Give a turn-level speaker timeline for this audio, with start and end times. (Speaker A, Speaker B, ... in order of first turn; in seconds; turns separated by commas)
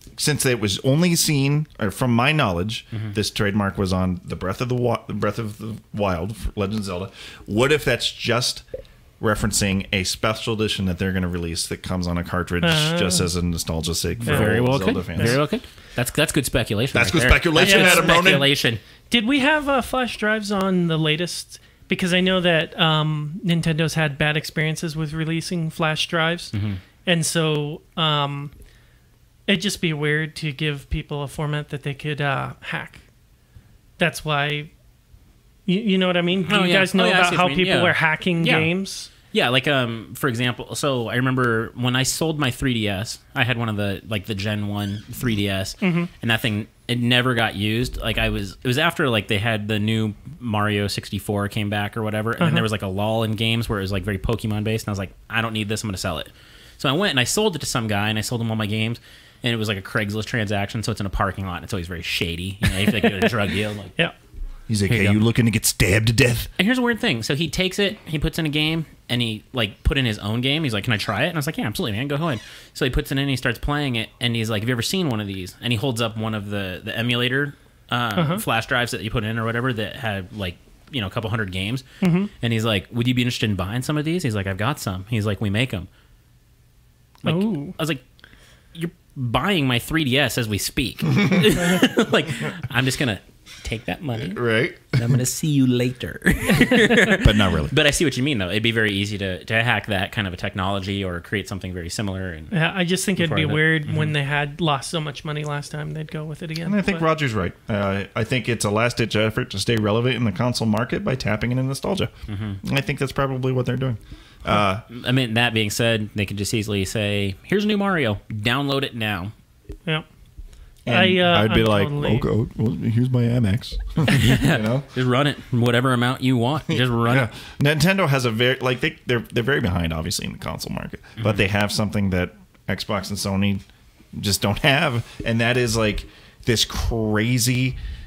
Speaker A: 0.2-8.6, Speaker A: 9.2-15.4, Speaker B: 12.6-13.3, Speaker C: 14.2-18.8, Speaker B: 14.2-15.4, Speaker A: 16.9-18.5, Speaker B: 17.6-18.5, Speaker B: 19.1-26.5, Speaker C: 26.5-26.8, Speaker B: 27.0-28.5, Speaker B: 29.5-33.0, Speaker B: 34.0-34.7, Speaker B: 35.6-39.1, Speaker C: 36.5-64.0, Speaker B: 45.8-46.1, Speaker B: 52.4-52.6, Speaker A: 64.7-66.5, Speaker C: 64.8-65.2, Speaker C: 66.6-81.8, Speaker B: 78.1-78.4, Speaker B: 82.0-82.3, Speaker C: 82.4-85.9, Speaker C: 87.2-88.0, Speaker B: 87.2-87.7, Speaker C: 88.7-102.5, Speaker A: 94.2-94.9, Speaker A: 97.2-97.7, Speaker B: 102.5-107.0, Speaker C: 103.2-104.2, Speaker A: 106.6-112.1, Speaker C: 112.3-112.6, Speaker A: 112.6-114.8, Speaker C: 114.9-119.3, Speaker A: 120.8-124.9, Speaker B: 120.9-122.3, Speaker C: 124.1-127.3, Speaker A: 126.7-133.6, Speaker A: 134.2-137.8